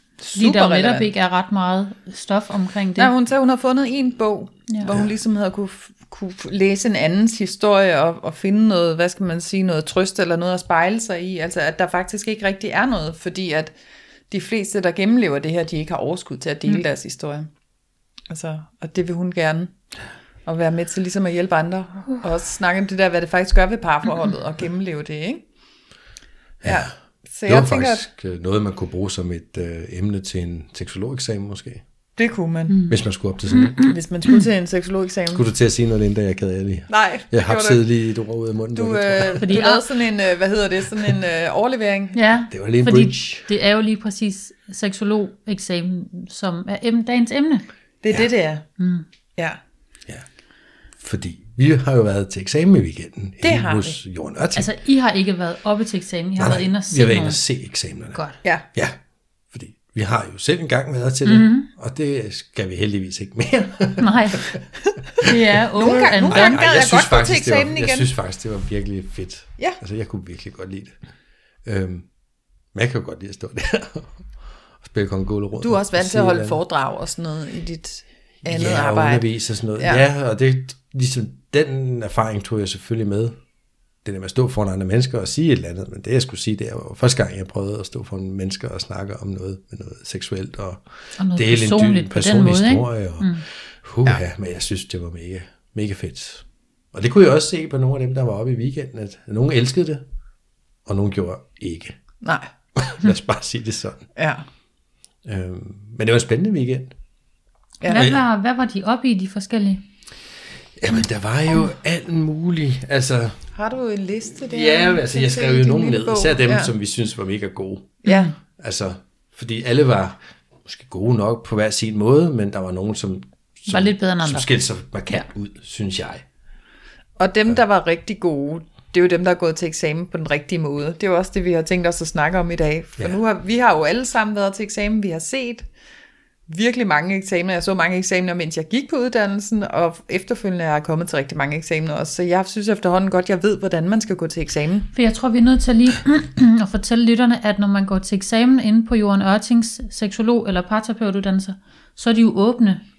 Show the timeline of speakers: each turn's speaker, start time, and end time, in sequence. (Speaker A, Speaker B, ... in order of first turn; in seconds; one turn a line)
Speaker A: 0.2-1.1
Speaker B: 0.3-3.1
Speaker A: 3.0-13.7
Speaker A: 14.3-17.5
Speaker A: 18.3-19.7
Speaker A: 20.5-25.4
Speaker C: 26.6-26.9
Speaker A: 26.6-28.1
Speaker C: 27.5-31.8
Speaker A: 32.2-32.8
Speaker B: 32.7-33.0
Speaker C: 32.9-33.8
Speaker B: 33.5-34.4
Speaker A: 33.8-35.4
Speaker C: 35.3-39.6
Speaker A: 36.9-37.8
Speaker A: 38.7-42.2
Speaker B: 39.4-39.8
Speaker B: 42.1-47.6
Speaker C: 42.5-43.5
Speaker A: 48.0-48.7
Speaker B: 48.8-49.0
Speaker C: 51.0-54.7
Speaker A: 53.4-54.0
Speaker B: 54.5-57.4
Speaker C: 56.4-58.2
Speaker C: 59.5-64.6
Speaker B: 61.2-61.7
Speaker B: 64.0-64.5
Speaker A: 65.2-68.1
Speaker C: 65.2-71.0
Speaker B: 65.2-66.6
Speaker C: 71.7-72.1
Speaker C: 72.7-74.2
Speaker C: 74.8-76.6
Speaker A: 75.6-79.2
Speaker C: 78.5-83.4
Speaker A: 79.8-80.0
Speaker C: 84.0-90.8
Speaker B: 91.2-93.4
Speaker C: 91.4-100.0
Speaker C: 100.9-102.0
Speaker C: 102.8-104.0
Speaker A: 104.2-104.4
Speaker C: 105.2-106.9
Speaker A: 107.8-108.1
Speaker B: 107.9-109.8
Speaker C: 107.9-108.2
Speaker C: 110.8-113.4
Speaker A: 113.6-116.7
Speaker C: 114.3-118.0
Speaker A: 118.0-118.3
Speaker B: 118.1-118.3
Speaker C: 118.6-126.2
Speaker B: 123.7-124.5
Speaker A: 127.2-135.7
Speaker A: 136.5-144.9
Speaker B: 144.9-152.8